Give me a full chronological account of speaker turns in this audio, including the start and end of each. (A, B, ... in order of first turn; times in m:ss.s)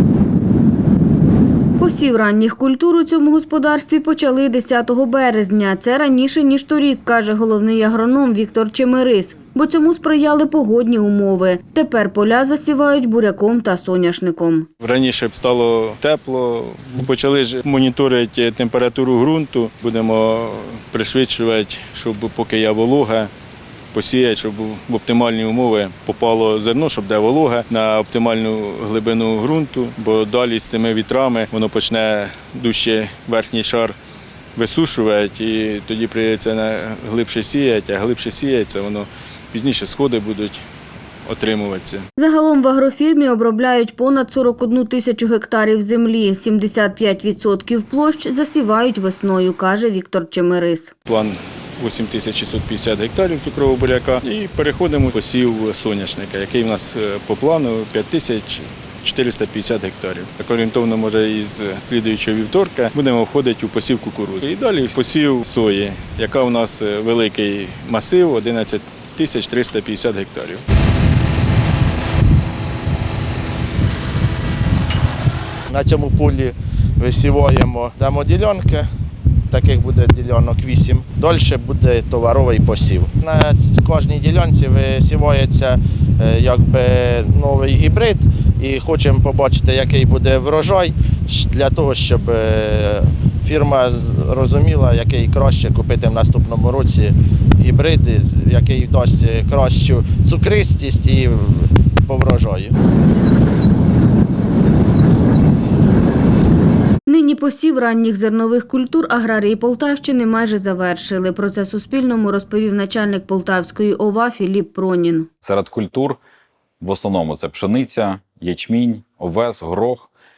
0:01.8-0:14.7 A
0:14.8-0:23.3 B
0:23.9-0:34.0 B
0:34.6-0:40.6 B
0:41.2-0:42.1 B
0:42.2-0:50.9 A
0:51.1-1:10.6 B
1:15.7-1:18.9 C
1:19.5-1:42.7 C
1:47.1-1:55.3 A
1:55.4-1:56.2 D
1:56.8-2:00.1 D